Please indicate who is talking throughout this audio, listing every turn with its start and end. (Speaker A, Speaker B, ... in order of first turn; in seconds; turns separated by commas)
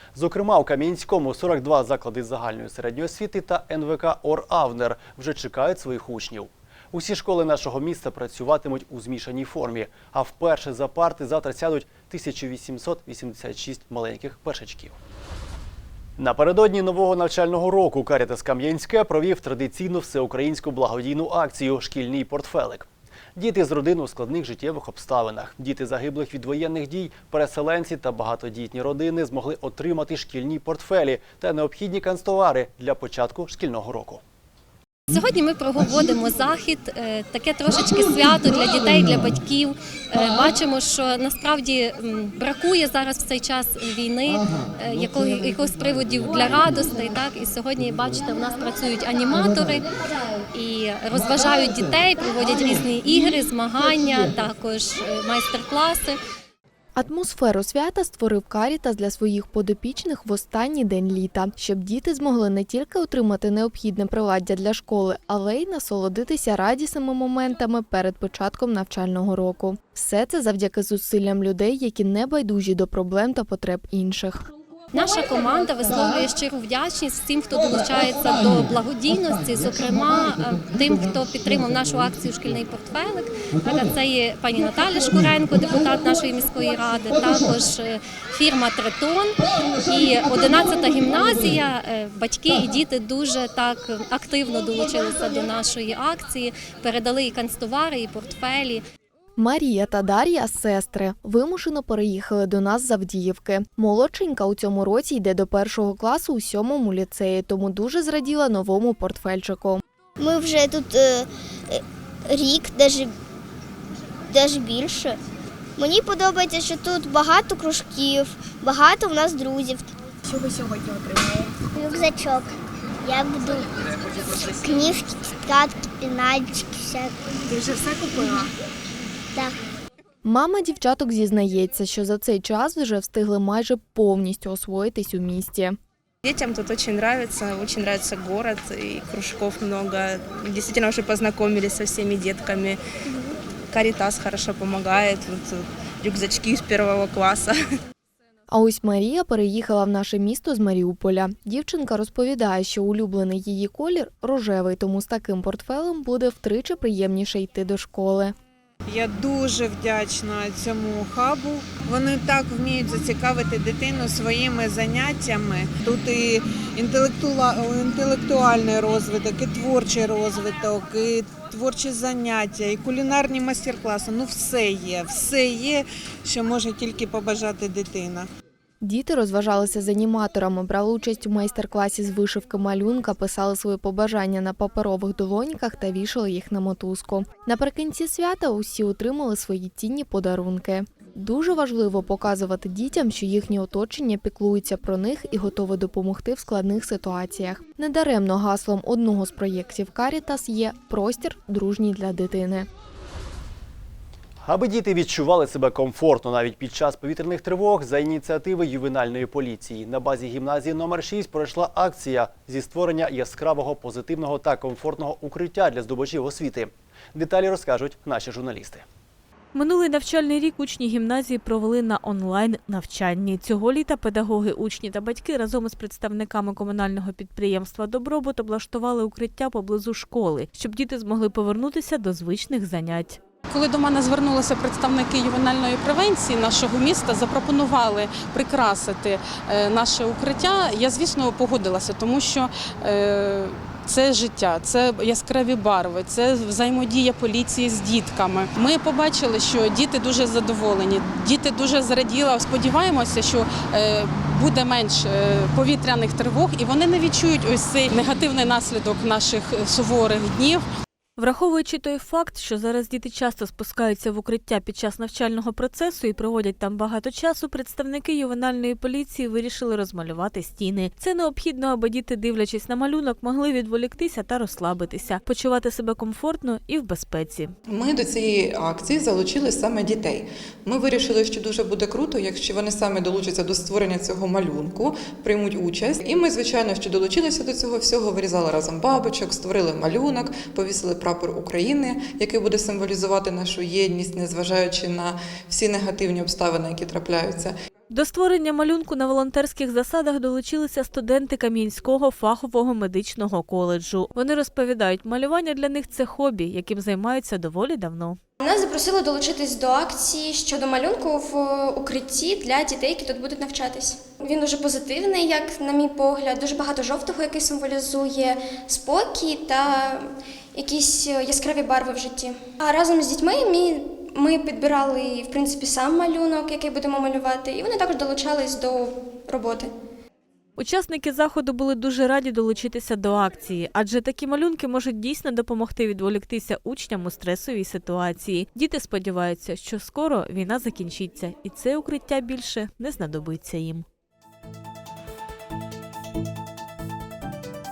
Speaker A: 0.1-15.0, Speaker A: 16.2-34.2, Speaker B: 35.1-49.9, Speaker B: 50.5-56.2, Speaker C: 57.0-74.4, Speaker B: 74.9-98.8, Speaker C: 99.4-109.8, Speaker D: 110.2-113.2, Speaker D: 114.3-115.2, Speaker D: 115.8-119.9, Speaker D: 121.7-123.7, Speaker D: 124.3-127.1, Speaker C: 130.2-135.8, Speaker E: 136.2-142.8, Speaker E: 143.7-147.6, Speaker C: 148.5-158.3, Speaker F: 158.9-178.3, Speaker C: 178.8-202.7, Speaker A: 204.4-218.8, Speaker G: 219.5-233.2, Speaker H: 233.5-260.6, Speaker G: 261.2-277.5, Speaker I: 277.7-297.5, Speaker G: 297.9-308.2, Speaker B: 308.4-329.7, Speaker G: 330.6-343.8